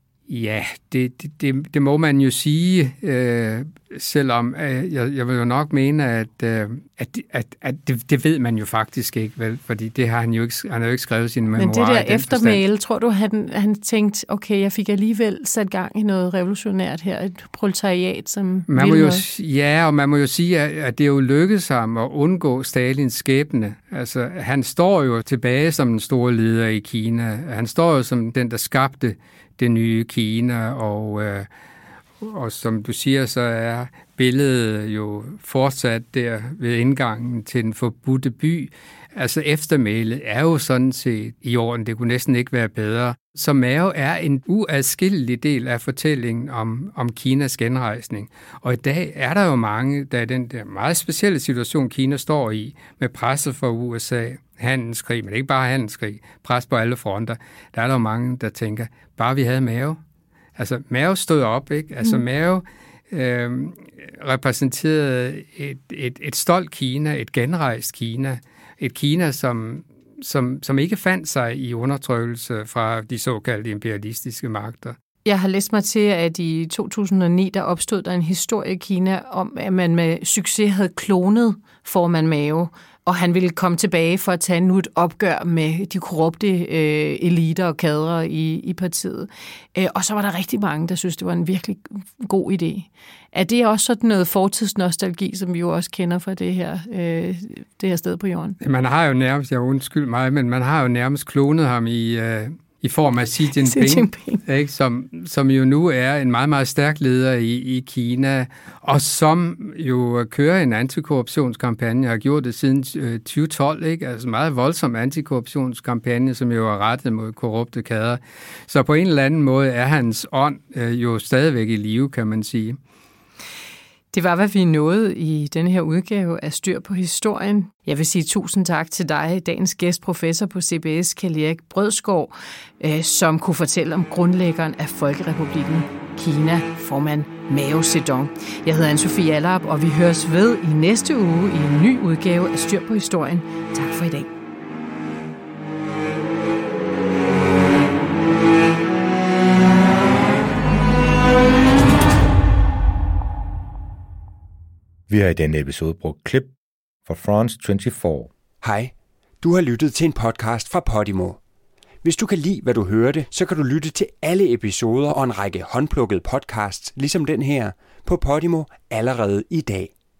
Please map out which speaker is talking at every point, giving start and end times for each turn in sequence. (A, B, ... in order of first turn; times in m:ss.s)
0:00.3-0:12.6 A
0:11.6-0:19.2 B
0:18.7-0:31.5 A
0:32.2-1:00.0 A
1:00.6-1:15.0 A
1:15.2-1:38.6 B
1:38.6-2:02.8 A
1:43.6-1:44.4 B
2:04.1-2:24.3 B
2:35.1-2:36.5 C
2:37.0-2:38.3 C
2:38.6-2:41.4 D
2:42.0-2:49.9 D